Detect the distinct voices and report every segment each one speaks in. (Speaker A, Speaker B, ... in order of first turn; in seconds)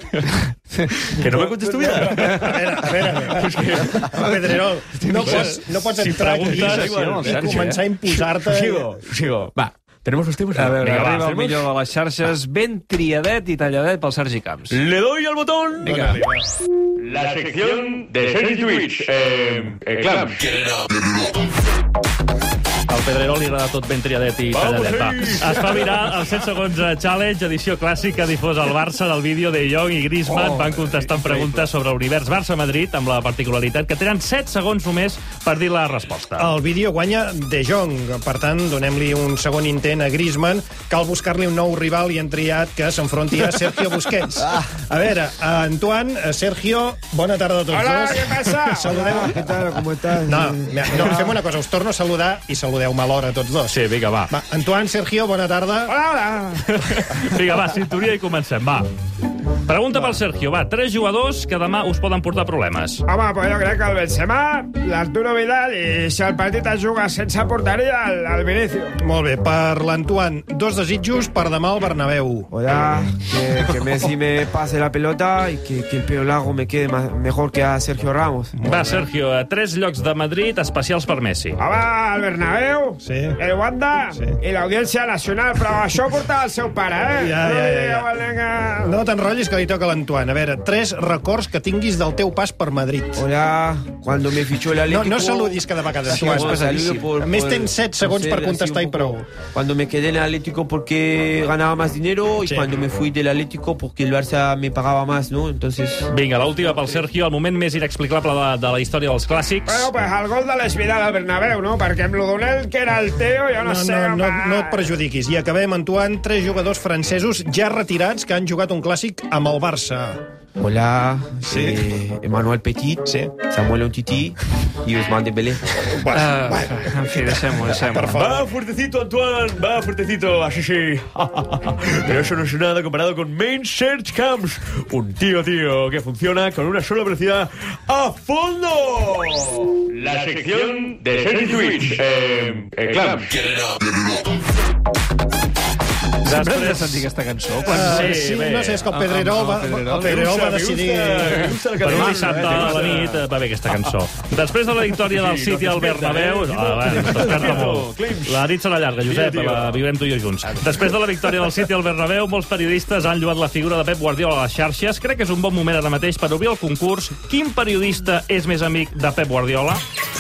Speaker A: 1.4-2.0, 3.4-4.0, 6.8-7.2, 8.6-11.4
Speaker B: 1.7-9.0, 15.8-16.4, 36.4-49.6, 50.2-53.8, 54.3-55.9, 59.9-60.2, 69.0-72.5, 78.6-79.0, 83.0-83.4, 87.2-88.1, 88.8-93.3, 94.9-99.3, 102.4-102.8, 113.6-120.2, 121.5-121.9, 123.1-123.3, 125.9-128.5, 147.6-151.5
Speaker C: 1.9-2.5, 5.1-7.9, 10.5-14.8, 15.9-16.2, 96.0-97.2, 126.1-128.3, 146.2-148.4, 148.9-150.3, 151.3-153.2, 157.0-157.5, 159.4-159.7
Speaker D: 6.1-6.8, 10.8-11.2, 22.9-36.5, 53.7-54.3, 56.7-58.9, 59.7-63.0, 78.6-81.6, 106.1-109.9, 146.3-147.1, 147.8-148.8, 151.8-169.8
Speaker E: 17.0-20.9, 139.9-143.8
Speaker F: 47.7-49.1, 55.9-56.7, 63.1-69.0, 81.6-89.0, 109.7-114.8
Speaker G: 48.9-51.4, 72.5-78.5, 93.2-106.1, 120.6-125.6